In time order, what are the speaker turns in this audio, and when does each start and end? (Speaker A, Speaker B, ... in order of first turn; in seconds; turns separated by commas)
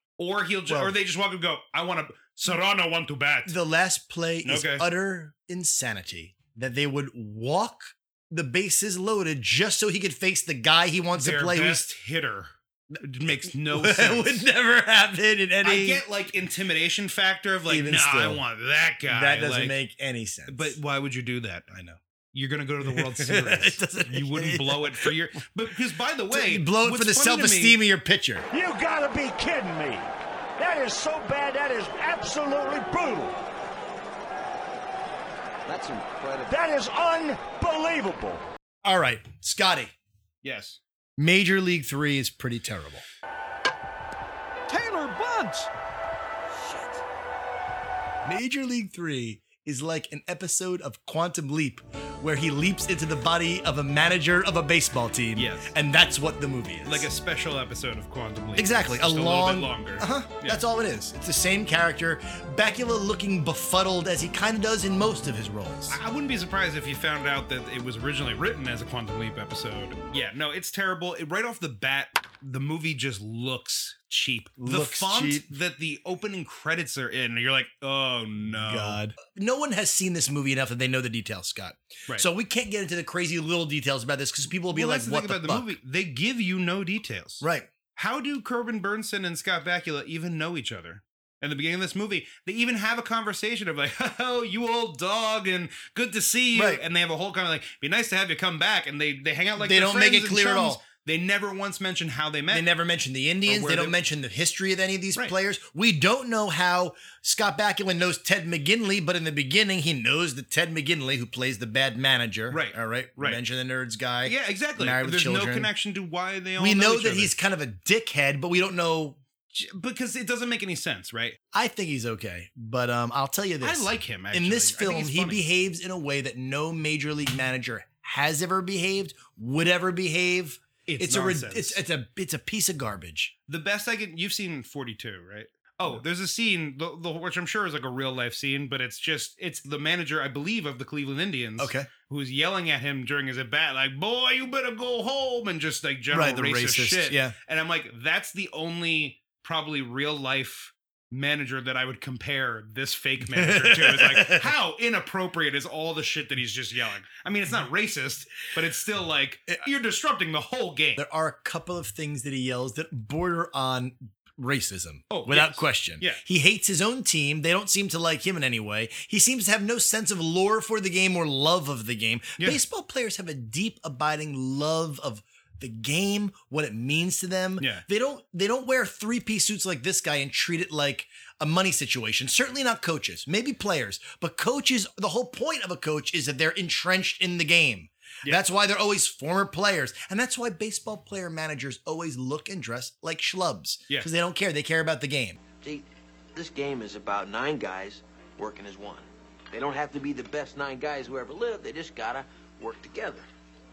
Speaker A: 0.2-3.5, Speaker B: 0.7-0.9, Speaker B: 3.5-11.8, Speaker A: 4.4-4.9, Speaker A: 11.1-14.5, Speaker B: 13.3-16.0, Speaker A: 15.6-19.8, Speaker B: 17.7-18.4, Speaker B: 19.1-20.8, Speaker A: 20.5-27.8, Speaker B: 22.9-25.1, Speaker B: 26.3-28.5, Speaker C: 28.5-33.4, Speaker D: 35.7-36.4, Speaker C: 36.4-38.4, Speaker B: 38.8-39.9, Speaker A: 40.4-40.8, Speaker B: 41.2-43.0, Speaker B: 48.2-57.1, Speaker A: 55.4-55.7, Speaker A: 56.9-60.6, Speaker B: 58.6-66.0, Speaker A: 65.9-79.0, Speaker B: 74.6-75.5, Speaker B: 78.5-85.8, Speaker A: 84.7-102.7, Speaker B: 87.4-87.7, Speaker B: 96.5-96.8, Speaker B: 99.6-100.8, Speaker B: 102.5-115.7, Speaker A: 103.5-104.0, Speaker A: 112.5-113.4, Speaker A: 114.2-117.3, Speaker B: 116.6-119.2, Speaker A: 119.5-121.4, Speaker B: 121.5-133.3, Speaker A: 123.6-125.5, Speaker A: 130.9-131.8, Speaker A: 133.5-161.0, Speaker B: 141.6-141.9, Speaker B: 146.1-147.3, Speaker B: 153.3-154.5, Speaker B: 161.0-195.4, Speaker A: 165.1-166.2, Speaker D: 195.6-203.3